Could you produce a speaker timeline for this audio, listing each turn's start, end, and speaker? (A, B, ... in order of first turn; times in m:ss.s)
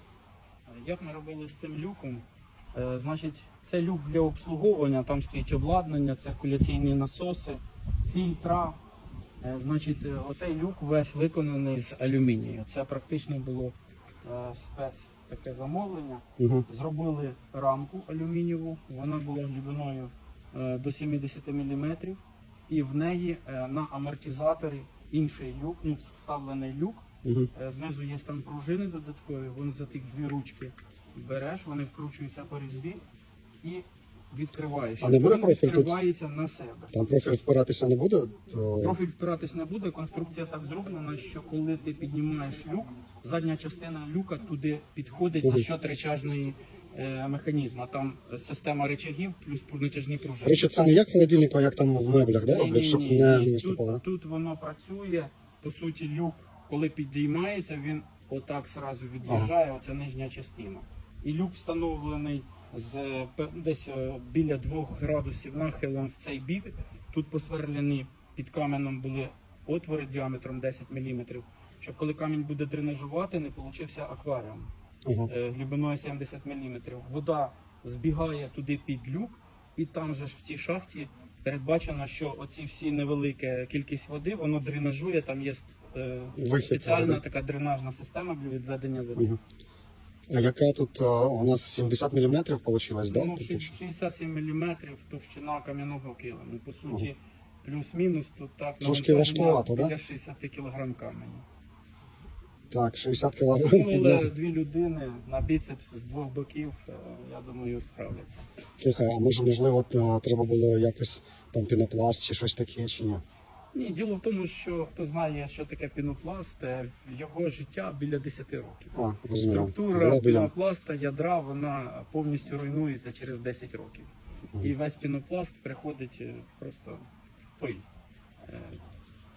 0:00.7-0:08.8 A
0:09.4-0:33.0 A
0:16.4-0:16.6 B
0:27.2-0:27.5 B
0:33.6-0:36.9 A
0:35.0-0:36.0 B
0:36.9-0:39.0 B
0:38.8-0:50.7 A
0:45.4-0:45.7 B
0:50.4-0:54.0 B
0:52.3-1:14.7 A
0:59.2-0:59.5 B
1:15.0-1:15.3 B
1:15.3-1:29.2 A
1:26.4-1:27.2 B
1:30.3-1:33.7 B
1:33.1-1:41.4 A
1:38.8-1:39.9 B
1:42.7-1:44.3 B
1:43.6-1:48.4 A
1:48.8-1:53.2 B
1:53.7-2:04.1 A
1:58.9-2:00.5 B
2:04.6-2:07.0 A
2:07.6-2:07.8 A
2:08.4-2:08.8 A